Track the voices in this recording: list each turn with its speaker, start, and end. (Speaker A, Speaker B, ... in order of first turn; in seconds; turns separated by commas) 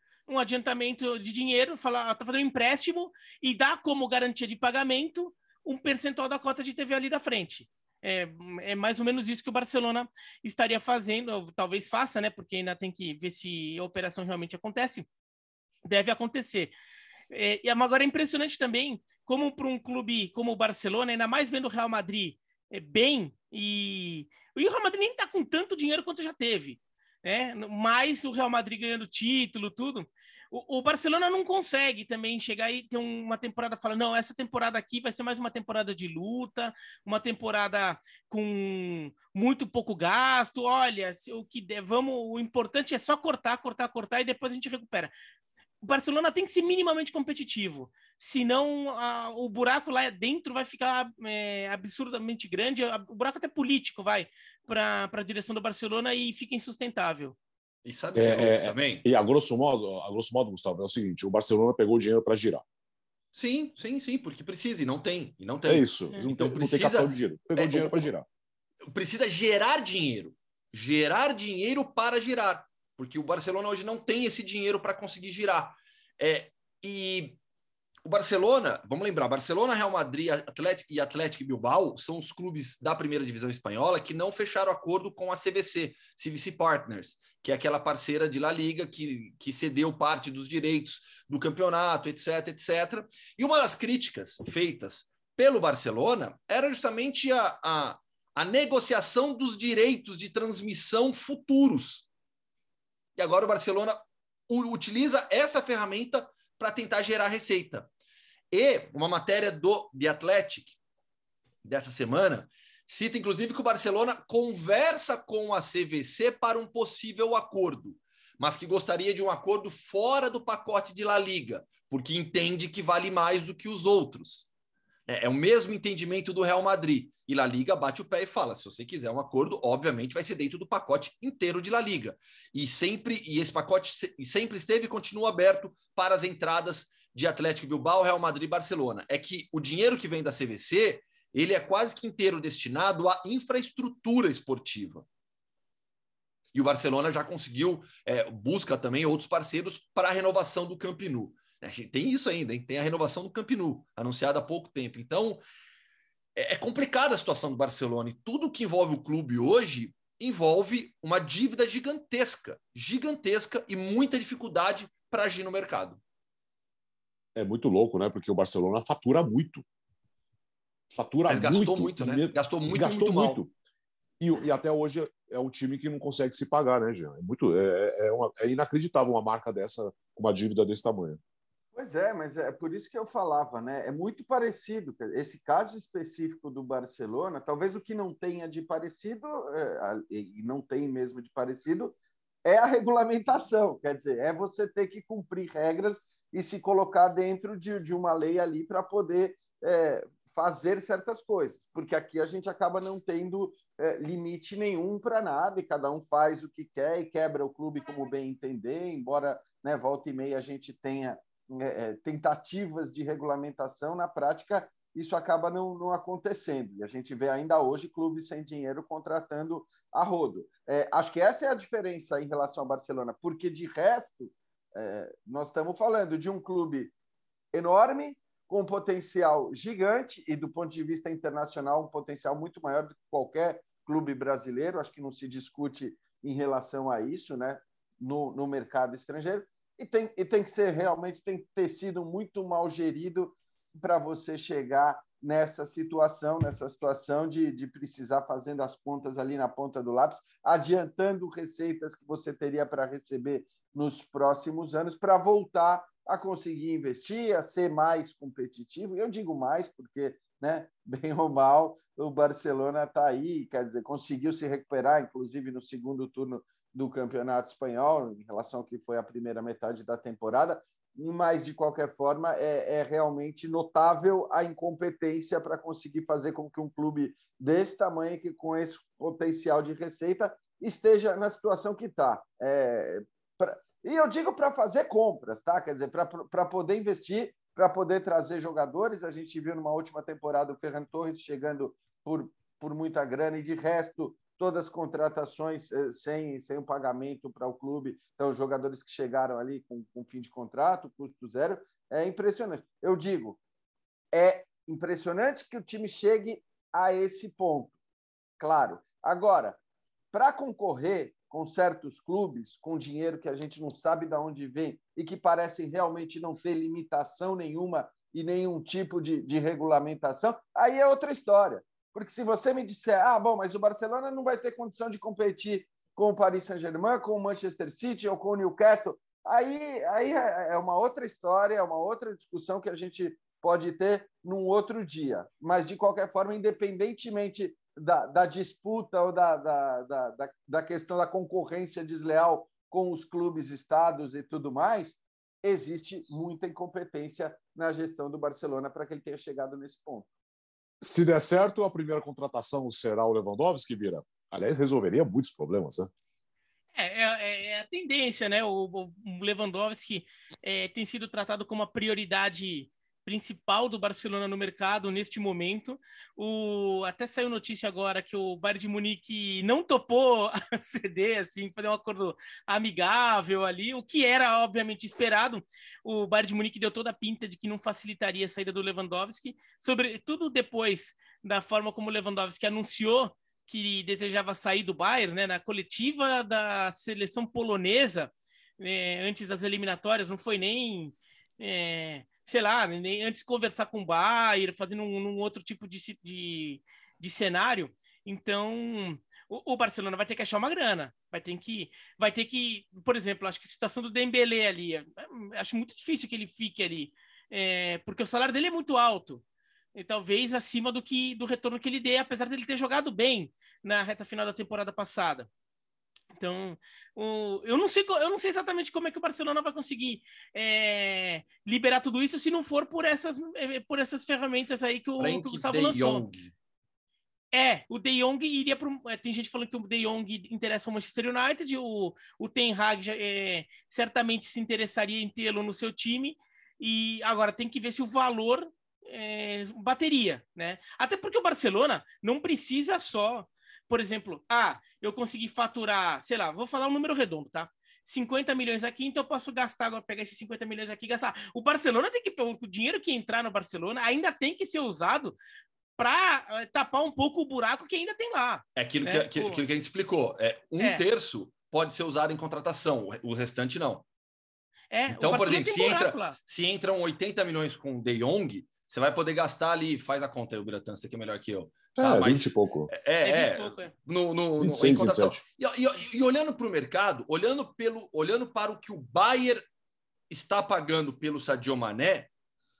Speaker A: 0.3-15.1, Speaker A: 15.8-16.7, Speaker A: 17.3-45.1, Speaker A: 45.8-57.4, Speaker B: 57.8-59.0, Speaker C: 58.1-62.6, Speaker B: 63.3-68.1, Speaker C: 65.7-68.2, Speaker B: 68.9-77.4, Speaker B: 78.0-102.0, Speaker B: 103.2-107.9, Speaker B: 108.5-110.8, Speaker B: 111.6-124.5, Speaker B: 125.1-145.0, Speaker B: 146.5-155.4, Speaker B: 156.3-166.0, Speaker C: 167.3-169.6, Speaker C: 170.9-173.5, Speaker B: 171.3-173.4, Speaker C: 174.2-181.2, Speaker D: 181.7-226.9, Speaker D: 227.5-303.4, Speaker D: 304.1-307.7, Speaker D: 308.4-309.6, Speaker D: 310.1-350.1, Speaker C: 350.8-355.9, Speaker A: 356.8-409.2, Speaker A: 409.7-415.3, Speaker A: 416.1-426.0, Speaker B: 425.0-426.3, Speaker A: 427.3-455.1, Speaker A: 455.8-459.4, Speaker B: 458.6-463.9, Speaker A: 464.7-466.1, Speaker B: 464.9-479.4, Speaker C: 471.8-472.7, Speaker A: 473.0-473.7, Speaker C: 474.4-475.2, Speaker B: 480.1-482.1